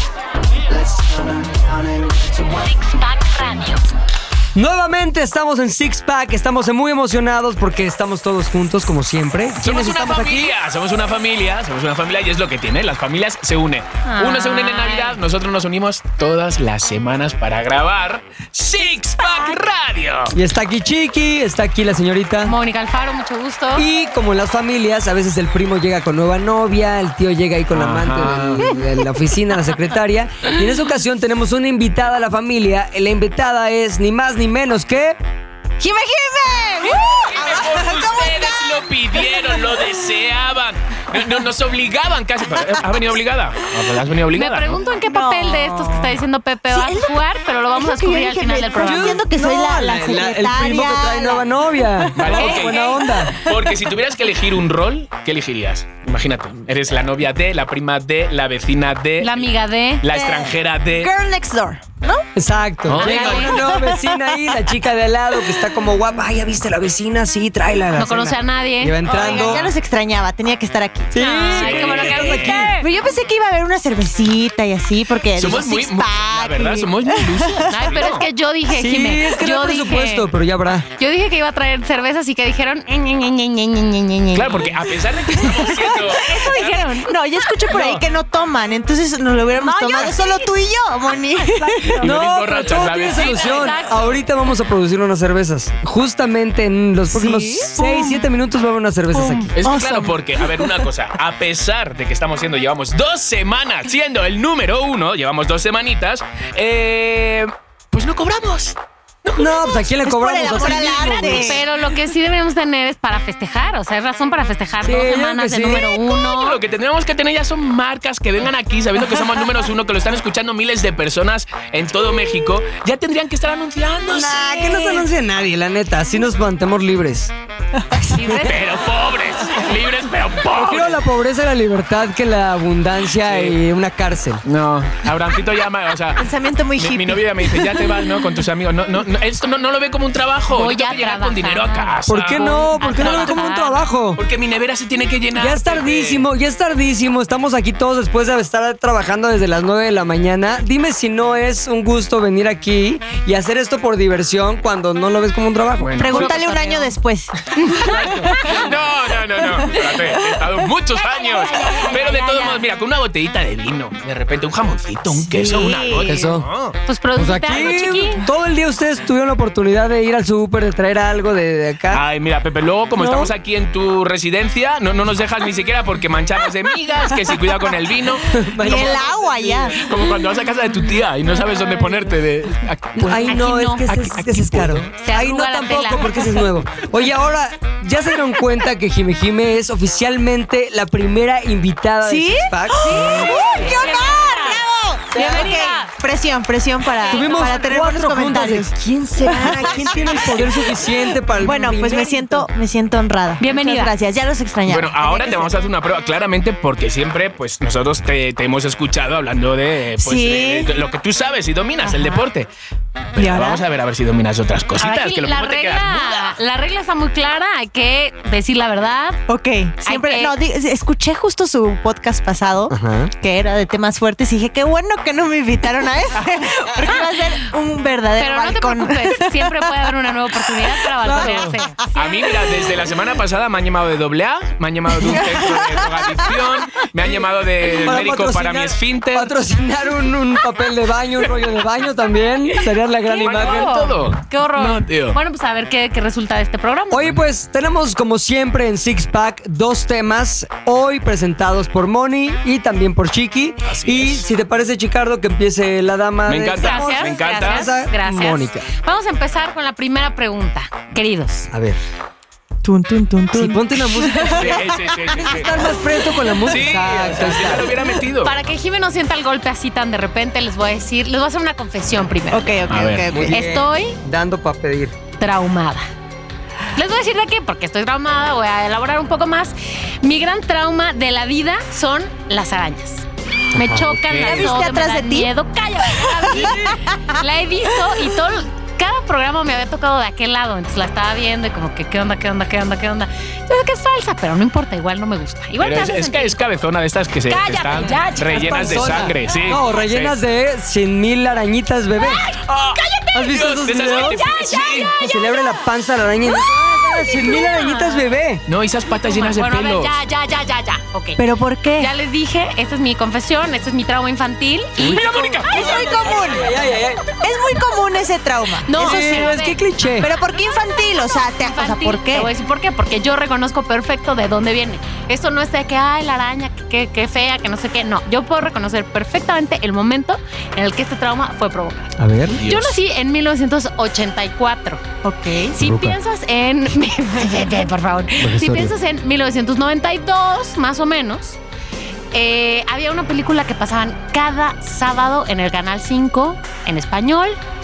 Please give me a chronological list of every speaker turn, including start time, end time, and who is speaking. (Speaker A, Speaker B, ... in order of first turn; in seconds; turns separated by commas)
Speaker A: 2.5-3.8, Speaker B: 4.5-10.5, Speaker C: 9.6-20.4, Speaker A: 14.1-15.2, Speaker B: 20.3-22.6, Speaker A: 22.4-23.9, Speaker B: 23.8-35.2, Speaker C: 27.7-28.7, Speaker D: 35.8-39.9, Speaker C: 36.8-44.8, Speaker A: 44.3-49.2, Speaker D: 45.0-47.2, Speaker D: 47.7-53.9, Speaker B: 48.8-53.4, Speaker C: 52.1-59.5, Speaker A: 52.4-52.8, Speaker A: 59.2-60.0, Speaker C: 60.0-61.1, Speaker D: 60.1-62.3, Speaker B: 62.4-69.7, Speaker C: 62.9-63.5, Speaker A: 63.0-63.6, Speaker D: 63.2-64.8, Speaker A: 67.9-69.6, Speaker D: 69.1-71.7, Speaker B: 71.1-72.7, Speaker A: 71.2-72.9, Speaker C: 71.5-72.7, Speaker D: 72.8-78.0, Speaker C: 75.3-78.3, Speaker A: 77.7-80.3, Speaker B: 78.7-80.9, Speaker A: 81.0-84.7, Speaker C: 84.3-86.7, Speaker D: 85.3-92.1, Speaker A: 85.6-87.2, Speaker B: 87.7-88.0, Speaker A: 89.6-90.5, Speaker A: 91.4-92.0, Speaker C: 91.8-93.5, Speaker B: 92.0-99.5, Speaker A: 92.7-94.2, Speaker D: 97.1-98.2, Speaker D: 99.1-100.8, Speaker C: 99.5-109.4, Speaker B: 109.3-111.7, Speaker D: 109.4-111.6, Speaker A: 110.5-116.6, Speaker B: 114.8-115.8, Speaker C: 115.6-125.1, Speaker B: 124.1-127.3, Speaker A: 128.1-128.7, Speaker C: 128.5-131.0, Speaker B: 130.5-134.4, Speaker C: 133.2-133.6, Speaker C: 134.4-143.4, Speaker D: 136.2-138.0, Speaker A: 140.5-143.9, Speaker B: 142.1-144.2, Speaker C: 144.2-146.3, Speaker B: 145.3-156.1, Speaker C: 155.8-156.4, Speaker D: 156.0-158.7, Speaker A: 156.0-156.9, Speaker A: 157.6-158.6, Speaker B: 157.9-158.3, Speaker C: 157.9-166.8, Speaker D: 159.4-160.5, Speaker A: 161.0-162.7, Speaker D: 165.2-166.2, Speaker B: 166.1-166.5, Speaker A: 166.9-168.2, Speaker B: 167.2-172.0, Speaker C: 171.9-179.1, Speaker B: 178.3-179.8, Speaker D: 178.6-180.0, Speaker C: 179.7-184.9, Speaker B: 183.0-193.5, Speaker A: 183.2-183.8, Speaker A: 185.0-186.5, Speaker D: 192.0-205.5, Speaker A: 192.8-195.9, Speaker B: 195.2-195.5, Speaker A: 197.0-197.6, Speaker B: 197.1-202.5, Speaker A: 203.4-203.9, Speaker C: 204.7-212.5, Speaker D: 210.0-210.7, Speaker D: 211.8-212.2, Speaker C: 213.2-216.4, Speaker D: 213.2-213.6, Speaker A: 214.8-219.2, Speaker D: 219.3-232.7, Speaker A: 219.8-220.3, Speaker B: 222.7-223.1, Speaker A: 228.2-231.8, Speaker B: 231.0-231.6, Speaker C: 231.9-239.3, Speaker D: 235.0-236.3, Speaker B: 237.7-243.7, Speaker A: 243.1-247.1, Speaker C: 243.2-245.2, Speaker B: 246.9-258.7, Speaker C: 253.7-254.2, Speaker C: 256.3-257.7, Speaker A: 256.6-261.5, Speaker B: 261.5-261.8, Speaker D: 262.6-265.2, Speaker B: 263.3-267.8, Speaker C: 264.3-265.6, Speaker C: 266.4-268.3, Speaker A: 268.2-272.6, Speaker D: 272.3-273.4, Speaker C: 272.7-273.1, Speaker B: 273.1-274.9, Speaker A: 273.1-274.0, Speaker A: 275.2-275.9, Speaker A: 276.7-296.4, Speaker B: 283.5-284.0, Speaker C: 284.0-284.6, Speaker D: 284.2-285.3, Speaker D: 285.9-287.2, Speaker B: 286.4-286.8, Speaker C: 295.6-300.1, Speaker A: 297.3-299.4, Speaker B: 298.3-302.2, Speaker A: 302.0-305.6, Speaker C: 302.4-304.9, Speaker B: 303.1-304.2, Speaker B: 305.0-308.4, Speaker A: 306.3-308.1, Speaker C: 308.5-309.9, Speaker A: 309.1-311.2, Speaker D: 311.2-311.9, Speaker A: 311.8-315.1, Speaker C: 314.8-316.5, Speaker B: 314.8-317.1, Speaker D: 315.5-316.5, Speaker D: 317.2-319.3, Speaker A: 318.7-319.6, Speaker B: 318.8-320.1, Speaker D: 320.0-322.3, Speaker A: 321.4-334.8, Speaker B: 332.0-332.4, Speaker C: 332.3-332.8, Speaker D: 335.0-335.6, Speaker A: 335.5-341.4, Speaker B: 335.6-336.0, Speaker B: 338.2-338.7, Speaker A: 342.1-347.4